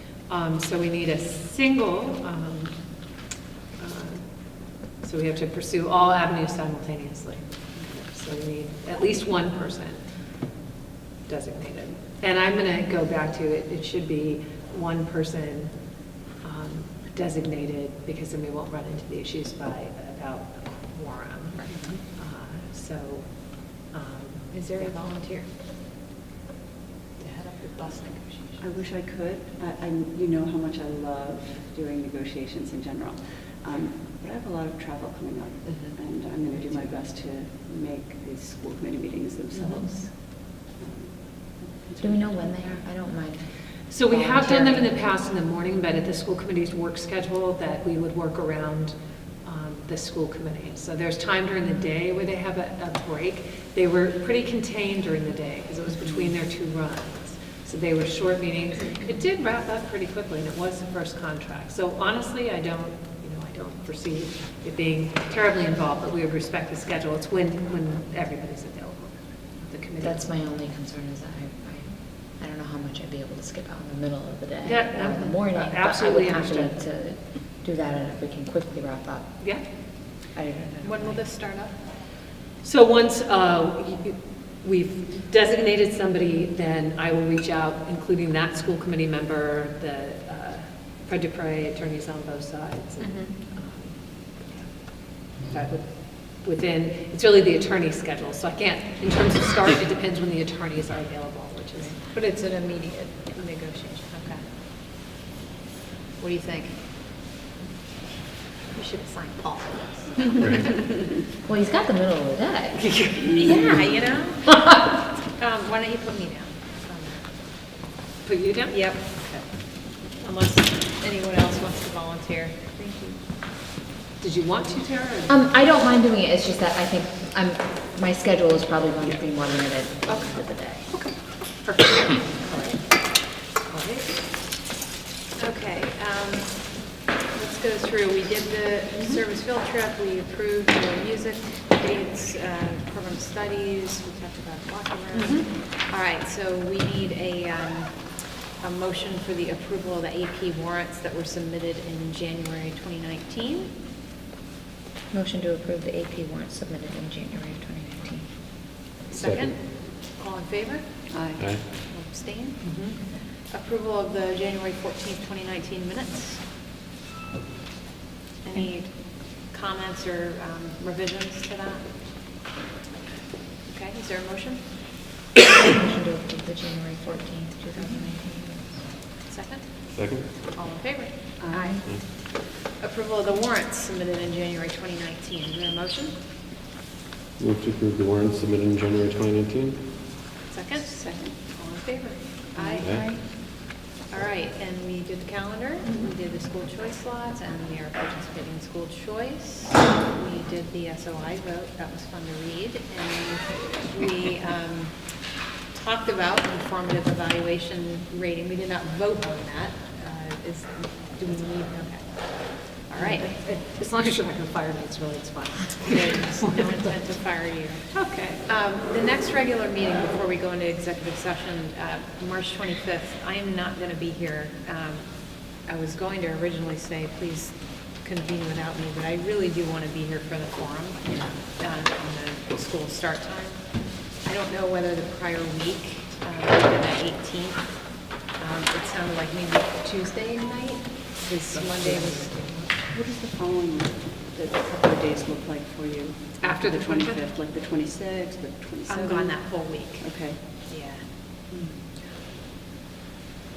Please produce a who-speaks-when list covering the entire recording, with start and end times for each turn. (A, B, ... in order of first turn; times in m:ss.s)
0:00.3-0:02.8 A
0:03.8-0:04.2 A
0:04.9-0:10.1 A
0:11.3-0:15.7 A
0:16.4-0:25.0 A
0:24.5-0:25.5 B
0:27.2-0:28.6 B
0:28.6-0:42.4 C
0:35.7-0:35.9 A
0:39.5-0:39.8 A
0:42.0-0:44.8 D
0:43.9-1:10.2 A
1:10.0-1:21.2 D
1:14.6-1:16.8 A
1:19.4-1:19.6 A
1:20.8-1:21.7 B
1:22.6-1:42.0 A
1:33.0-1:33.3 B
1:42.0-1:44.4 B
1:46.2-1:46.8 B
1:48.7-1:50.7 B
1:51.4-1:53.7 D
1:52.8-1:53.4 A
1:53.3-1:54.5 B
1:55.3-1:57.3 B
1:58.2-1:59.4 A
1:58.7-1:59.2 B
2:00.0-2:03.2 B
2:04.2-2:05.4 A
2:05.3-2:10.9 D
2:10.1-2:10.4 A
2:10.9-2:12.9 A
2:13.6-2:14.2 A
2:15.4-2:33.7 B
2:25.1-2:25.5 A
2:35.1-2:38.4 D
2:39.1-2:39.5 E
2:39.1-2:46.4 B
2:41.1-2:41.5 C
2:41.4-2:41.6 E
2:42.6-2:43.0 A
2:48.4-2:52.2 B
2:53.6-2:54.7 B
2:55.5-2:58.9 D
2:59.3-2:59.8 B
2:59.9-3:00.4 E
3:00.4-3:06.2 B
3:07.4-3:09.9 E
3:10.5-3:13.3 B
3:10.8-3:11.4 C
3:12.5-3:13.1 C
3:12.8-3:13.1 E
3:14.1-3:24.9 B
3:25.7-3:33.3 B
3:33.0-3:37.0 A
3:35.9-4:02.7 B
3:37.9-3:38.4 A
4:01.5-4:02.8 A
4:02.9-4:10.5 C
4:06.4-4:07.2 A
4:08.9-4:11.0 B
4:11.5-4:12.0 C